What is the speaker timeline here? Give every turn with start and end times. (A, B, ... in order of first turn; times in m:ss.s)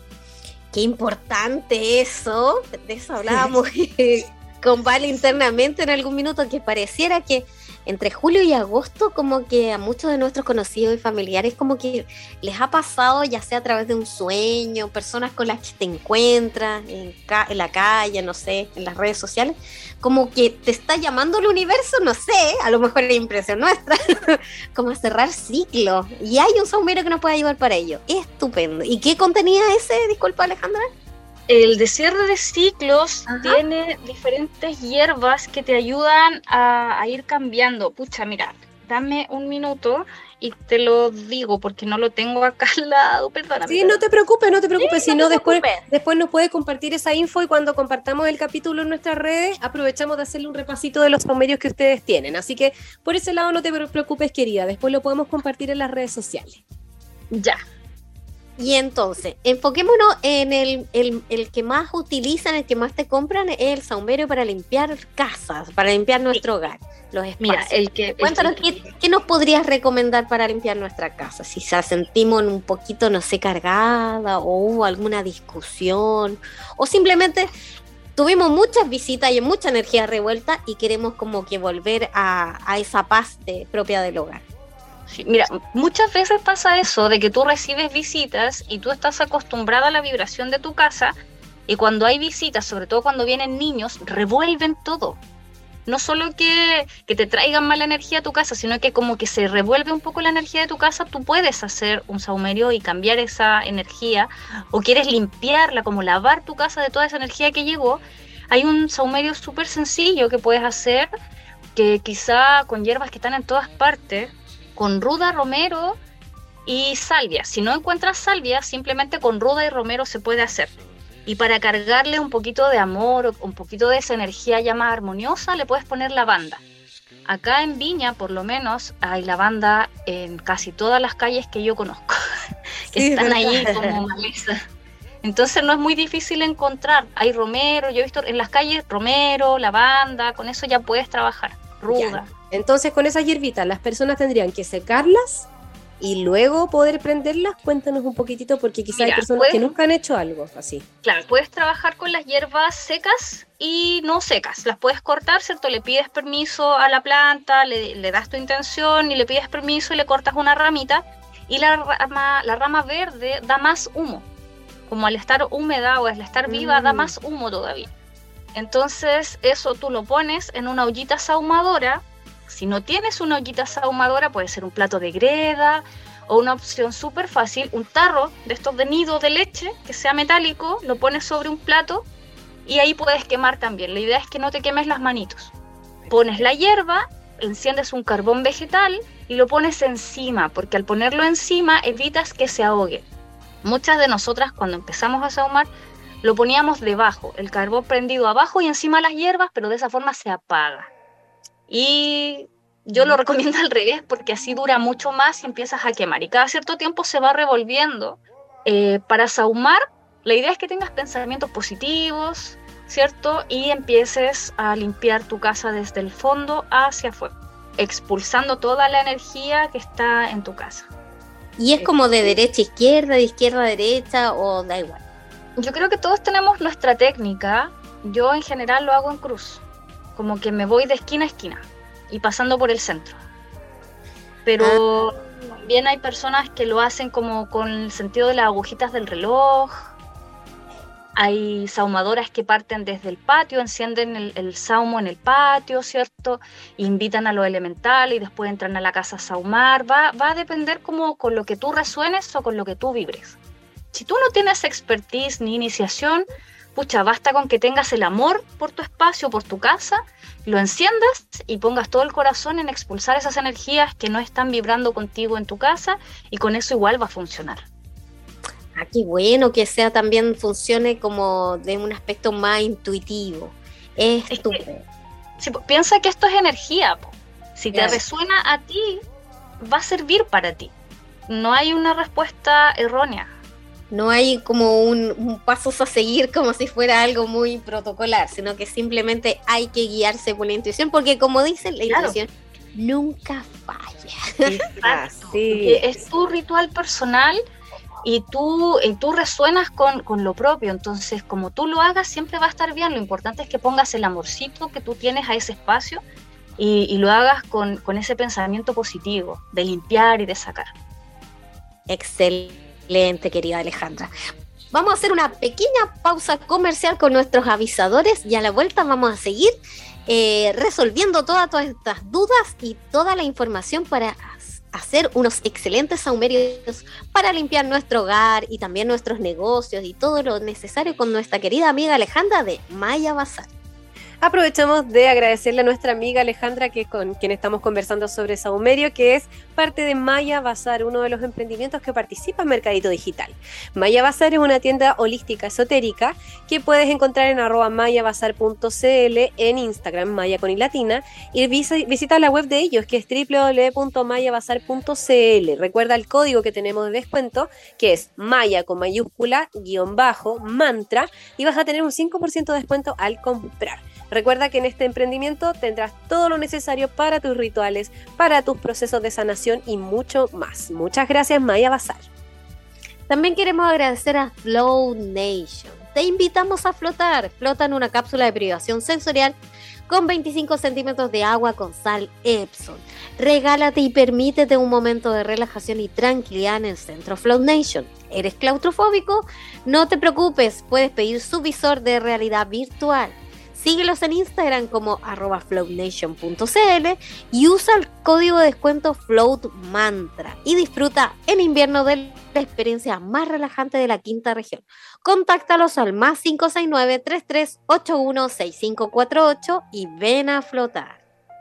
0:00.7-0:30.8 A
0:31.5-0:44.0 B
0:33.3-0:33.6 A
0:43.7-0:56.6 C
0:44.8-0:45.6 A
0:57.3-0:57.6 B
0:58.6-1:17.5 A
1:07.4-1:08.8 B
1:18.2-1:24.4 A
1:25.1-1:31.1 B
1:31.7-1:35.2 B
1:35.8-1:51.1 B
1:51.7-1:56.0 B
1:56.6-2:00.7 B
2:01.2-2:06.6 B
2:07.2-2:12.2 B
2:12.9-2:14.6 B
2:12.9-2:14.0 C
2:15.2-2:22.3 B
2:21.9-2:25.5 C
2:26.0-2:30.8 C
2:28.9-2:29.6 B
2:31.0-2:44.3 B
2:44.9-2:47.9 B
2:46.4-2:47.1 C
2:48.5-3:02.1 B
3:02.6-3:05.5 B
3:06.0-3:06.4 C
3:06.1-3:13.0 B
3:13.6-3:15.7 B
3:16.2-3:20.9 B
3:21.7-3:40.9 B
3:41.6-3:45.0 A
3:41.8-3:42.4 C
3:45.6-3:49.6 B
3:50.1-3:53.2 B
3:54.4-3:59.7 B
4:01.1-4:13.4 B
4:13.9-4:27.6 B
4:28.7-4:34.8 A
4:34.3-4:34.6 B
4:35.4-4:39.0 B
4:37.7-4:38.0 A
4:39.6-4:40.7 B
4:41.3-4:43.3 B
4:43.9-4:54.6 A
4:51.9-4:52.2 B
4:54.4-4:57.4 B
4:54.7-4:56.0 C
4:58.0-5:06.0 B
5:06.6-5:10.7 B
5:11.9-5:14.1 A
5:14.7-5:19.5 A
5:20.1-5:33.5 A
5:34.2-6:12.0 C
6:13.1-6:19.4 A
6:19.9-6:51.0 A